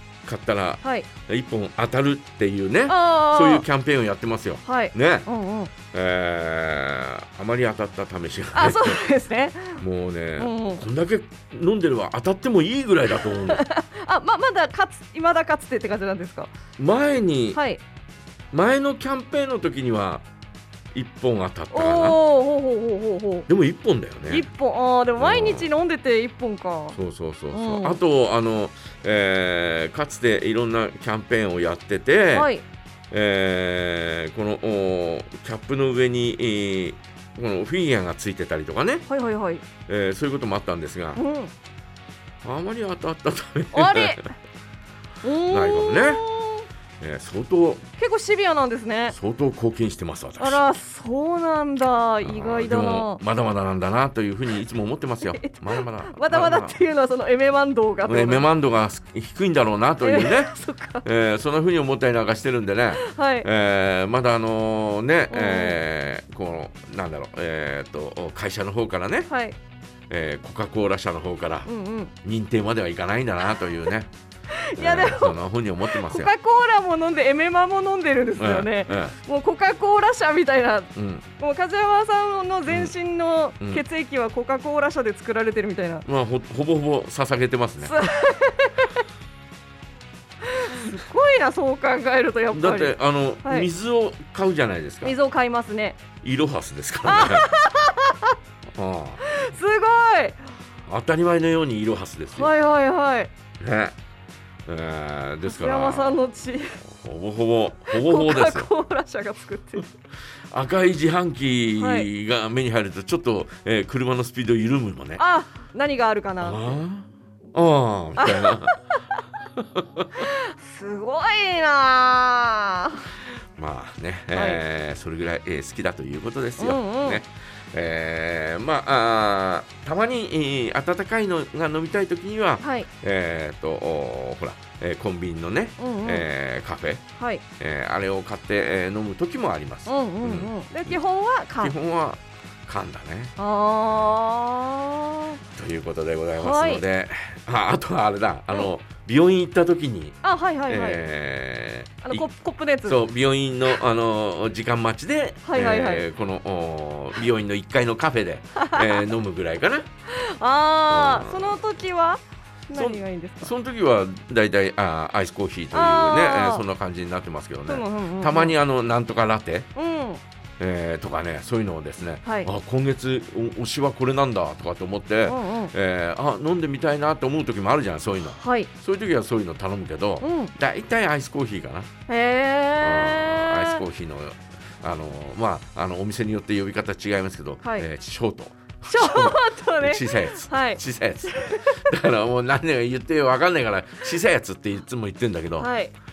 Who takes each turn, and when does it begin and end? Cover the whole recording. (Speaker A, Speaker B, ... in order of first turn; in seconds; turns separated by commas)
Speaker A: 0.2-5.3, Speaker B: 0.8-1.1, Speaker B: 2.9-3.7, Speaker B: 4.6-5.7, Speaker A: 5.9-9.0, Speaker B: 8.6-9.8, Speaker A: 9.8-13.6, Speaker B: 10.4-10.8, Speaker B: 13.1-16.5, Speaker A: 16.8-17.6, Speaker B: 17.5-17.8, Speaker A: 18.5-20.2, Speaker A: 20.9-22.2, Speaker B: 21.7-23.5, Speaker A: 23.5-24.5, Speaker B: 24.3-27.0, Speaker A: 25.2-25.7, Speaker A: 26.9-32.5, Speaker B: 27.5-28.0, Speaker B: 32.3-32.6, Speaker A: 33.1-39.1, Speaker B: 39.1-39.6, Speaker A: 39.9-41.2, Speaker B: 41.2-41.5, Speaker A: 42.4-44.3, Speaker B: 43.7-44.3, Speaker B: 45.2-46.7, Speaker A: 45.5-46.2, Speaker A: 47.0-47.9, Speaker B: 48.0-49.1, Speaker A: 49.1-50.6, Speaker B: 50.4-53.2, Speaker A: 52.2-56.8, Speaker B: 55.4-58.5, Speaker A: 58.1-69.3, Speaker B: 60.0-61.0, Speaker B: 63.0-63.5, Speaker B: 65.3-65.8, Speaker B: 69.3-69.6, Speaker A: 70.1-71.7, Speaker B: 71.7-72.1, Speaker A: 72.2-74.1, Speaker B: 74.5-75.4, Speaker A: 74.8-76.3, Speaker B: 75.9-86.1, Speaker A: 78.4-79.2, Speaker A: 81.0-81.3, Speaker A: 82.7-82.9, Speaker A: 86.0-88.0, Speaker B: 87.8-89.0, Speaker B: 90.4-93.7, Speaker A: 92.5-95.2, Speaker B: 95.0-96.0, Speaker A: 96.2-97.5, Speaker B: 97.0-98.4, Speaker A: 98.8-99.2, Speaker B: 99.2-100.4, Speaker A: 100.9-102.5, Speaker B: 102.3-103.3, Speaker A: 103.6-104.0, Speaker A: 104.7-106.2, Speaker B: 105.5-106.8, Speaker A: 106.8-108.7, Speaker B: 107.9-109.9, Speaker A: 110.5-115.2, Speaker B: 111.8-112.1, Speaker B: 115.2-116.8, Speaker A: 116.4-118.7, Speaker B: 118.2-118.8, Speaker A: 119.6-120.2, Speaker B: 120.2-123.1, Speaker A: 123.6-137.0, Speaker B: 124.3-124.6, Speaker B: 126.6-127.2, Speaker B: 132.6-132.9, Speaker B: 135.8-136.3, Speaker B: 137.2-137.4, Speaker A: 137.6-141.0, Speaker B: 139.9-141.8, Speaker A: 141.6-143.3, Speaker B: 143.4-145.4, Speaker A: 145.5-152.3, Speaker B: 146.4-146.8, Speaker B: 150.2-151.0, Speaker B: 152.0-153.0, Speaker A: 152.8-159.9, Speaker B: 155.4-156.1, Speaker B: 158.6-159.1, Speaker B: 160.1-163.5, Speaker A: 160.9-161.6, Speaker A: 162.7-169.7, Speaker B: 165.7-166.7, Speaker B: 167.7-168.6, Speaker B: 169.8-170.2, Speaker A: 170.6-181.9, Speaker B: 172.2-172.5, Speaker B: 175.3-175.7, Speaker B: 178.3-178.7, Speaker B: 180.2-180.5, Speaker B: 182.1-183.8, Speaker A: 182.8-195.7, Speaker B: 188.9-191.8, Speaker B: 195.6-195.9